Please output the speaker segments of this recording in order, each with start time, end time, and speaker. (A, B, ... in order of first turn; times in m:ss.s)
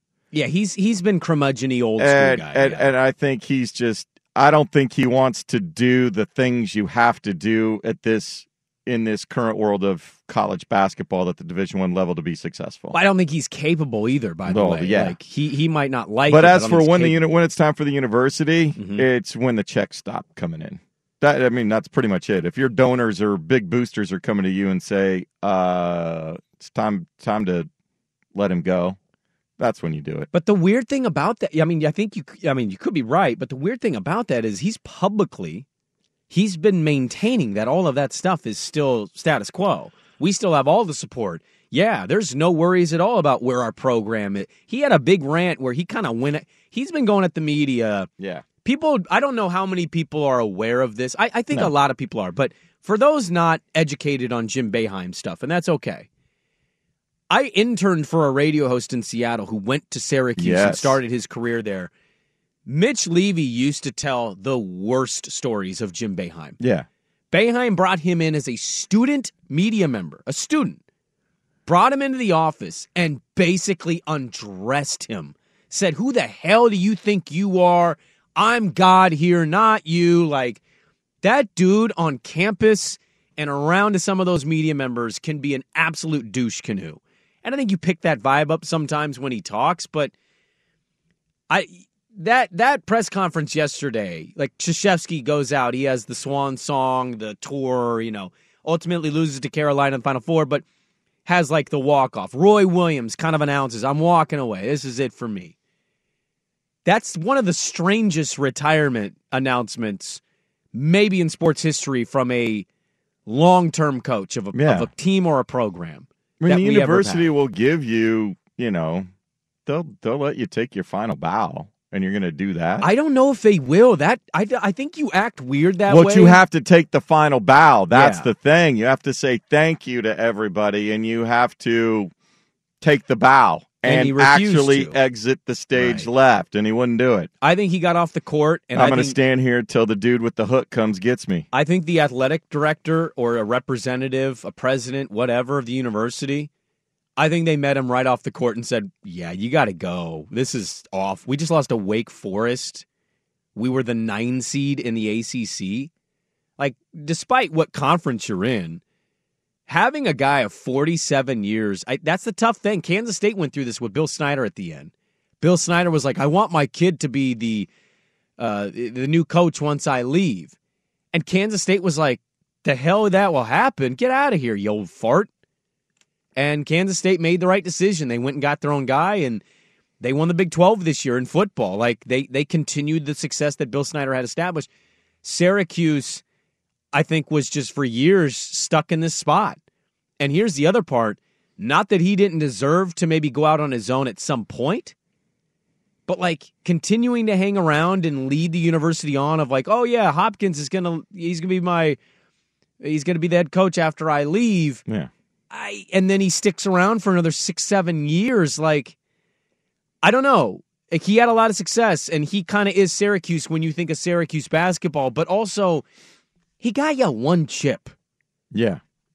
0:00.3-0:02.9 A
0:02.0-0:13.0 B
0:12.9-0:17.2 A
0:14.4-0:15.2 B
0:16.3-0:27.7 B
0:18.8-0:19.0 A
0:28.4-0:29.0 B
0:29.6-0:30.3 B
0:30.3-0:35.6 A
0:36.3-0:48.1 A
0:48.6-0:56.1 A
0:57.3-1:01.9 A
1:00.4-1:01.0 B
1:02.6-1:06.6 A
1:06.6-1:06.9 B
1:07.3-1:10.8 A
1:11.6-1:20.6 A
1:21.2-1:30.1 A
1:31.5-1:40.6 A
1:41.2-1:45.5 A
1:46.8-1:50.2 A
1:50.7-1:52.6 A
1:53.2-1:57.3 A
1:54.5-1:54.9 B
1:56.4-1:59.1 B
1:59.6-2:02.9 B
2:02.8-2:06.4 A
2:05.9-2:12.1 B
2:07.9-2:08.3 A
2:12.8-2:17.3 B
2:13.8-2:15.0 A
2:15.7-2:16.1 A
2:17.4-2:19.2 A
2:18.7-2:21.4 B
2:21.5-2:26.5 A
2:27.2-2:32.8 A
2:33.5-2:35.9 A
2:36.6-2:38.8 A
2:39.7-2:44.9 A
2:45.4-2:47.7 A
2:48.4-2:50.5 A
2:51.1-2:55.3 A
2:56.4-2:59.4 A
3:00.0-3:04.7 A
3:05.2-3:06.2 A
3:06.9-3:09.6 A
3:10.2-3:14.9 A
3:16.1-3:22.0 A
3:22.8-3:24.8 A
3:25.5-3:28.9 A
3:30.0-3:35.8 A
3:36.6-3:37.9 A
3:38.5-3:38.8 B